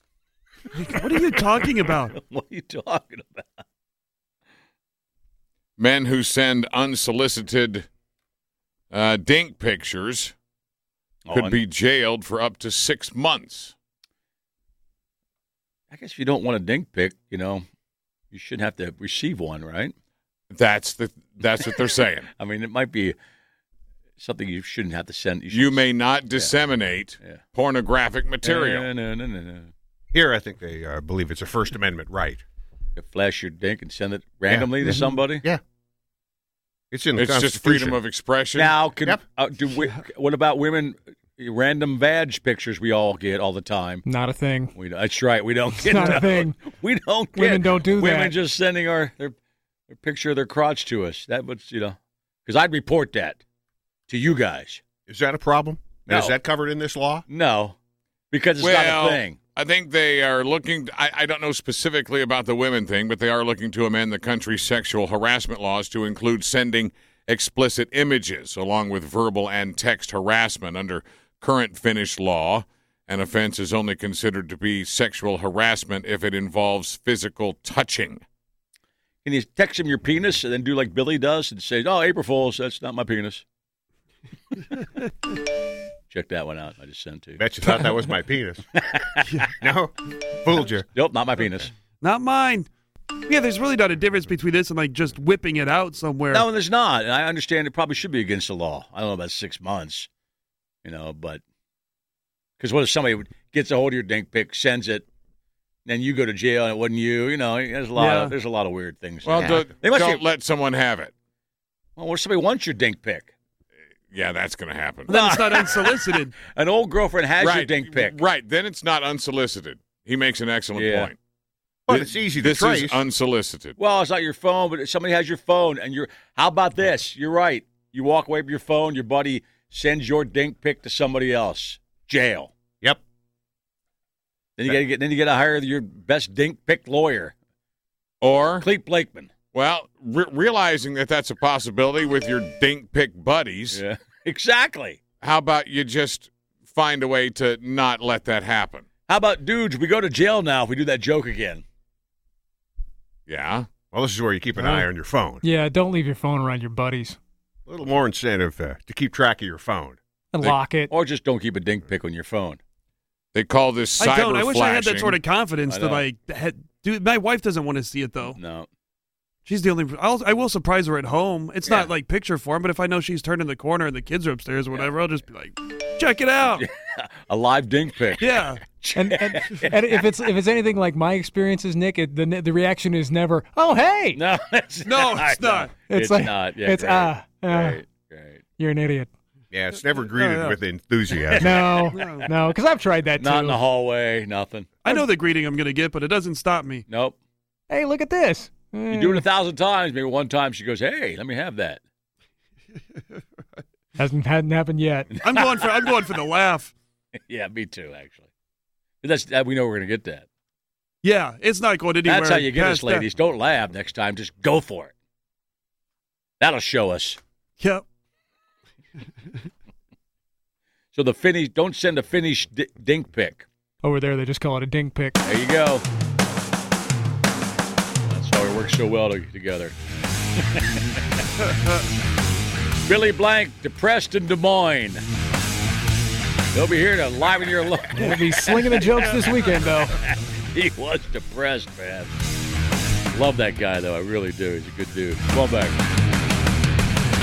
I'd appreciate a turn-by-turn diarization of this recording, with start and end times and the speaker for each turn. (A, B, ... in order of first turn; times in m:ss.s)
0:00.7-0:02.2 A
0:00.9-0:03.6 B
0:05.8-0:07.9 C
0:08.9-0:10.3 C
0:11.3-0:11.6 B
0:11.3-0:13.8 C
0:15.9-0:17.7 B
0:18.3-0:19.9 B
0:20.5-0:22.3 C
0:22.4-0:23.2 B
0:24.2-0:25.8 B
0:25.5-0:28.9 C
0:28.4-0:29.7 B
0:30.1-0:32.4 D
0:33.0-0:35.4 B
0:34.5-0:35.6 D
0:36.9-0:38.0 D
0:37.2-0:38.8 C
0:38.6-0:44.0 B
0:44.1-0:44.7 E
0:44.8-0:49.4 B
0:45.8-0:46.6 E
0:47.4-0:48.4 E
0:49.9-0:53.4 B
0:54.1-0:54.8 B
0:55.1-0:57.2 D
0:56.1-0:56.4 B
0:57.3-0:57.8 B
0:58.3-0:59.4 B
0:58.6-1:18.2 C
1:19.2-1:23.4 B
1:26.1-1:27.8 B
1:27.4-1:28.7 D
1:28.8-1:29.5 B
1:29.6-1:30.9 D
1:31.0-1:31.7 B
1:32.0-1:32.7 A
1:33.3-1:36.5 A
1:36.3-1:40.1 B
1:40.8-1:41.4 B
1:42.6-1:45.1 B
1:45.9-1:50.2 B
1:48.0-1:48.4 A
1:49.2-1:51.1 C
1:49.4-1:49.7 D
1:52.0-1:53.3 B
1:54.1-1:55.2 C
1:55.1-1:56.4 A
1:55.1-1:58.1 B
1:57.4-2:01.2 C
2:00.8-2:01.1 B
2:01.9-2:03.0 D
2:01.9-2:03.8 C
2:03.8-2:12.5 B
2:14.6-2:17.4 B
2:18.2-2:18.7 C
2:18.6-2:19.3 B
2:19.5-2:23.8 C
2:23.7-2:25.0 B
2:25.2-2:28.8 C
2:29.1-2:31.6 B
2:33.3-2:33.7 C
2:33.9-2:35.4 D
2:34.6-2:34.9 E
2:35.4-2:37.2 E
2:37.7-2:40.0 D
2:40.3-2:40.9 E
2:40.9-2:42.6 B
2:43.3-2:45.2 C
2:44.0-2:48.4 A
2:45.7-2:46.0 B
2:48.2-2:48.7 B
2:49.4-2:56.7 A
2:51.6-2:51.9 B
2:56.5-3:00.1 B
2:58.2-2:58.6 A
2:59.0-3:04.2 E
3:04.1-3:08.4 B
3:04.8-3:05.7 A
3:05.9-3:07.8 E
3:08.6-3:09.1 E
3:09.5-3:11.9 D
3:10.2-3:10.6 A
3:11.2-3:12.3 B
3:11.4-3:13.6 E
3:11.9-3:12.3 A
3:13.2-3:14.7 B
3:14.8-3:16.8 A
3:16.9-3:17.2 B
3:17.7-3:19.2 E
3:18.9-3:21.8 B
3:24.0-3:25.1 E
3:25.2-3:25.7 B
3:25.2-3:26.7 A
3:27.3-3:28.3 B
3:29.0-3:30.3 B
3:31.0-3:33.1 A
3:32.0-3:34.9 B
3:36.4-3:37.2 B
3:37.6-3:37.8 A
3:40.9-3:43.5 B
3:43.8-3:45.2 E
3:45.2-3:45.8 B
3:48.0-3:49.8 B
3:50.4-3:51.0 B
3:52.9-3:55.0 B
3:56.5-3:59.2 B
3:57.9-4:00.0 E
4:00.0-4:02.1 B
4:03.1-4:05.8 B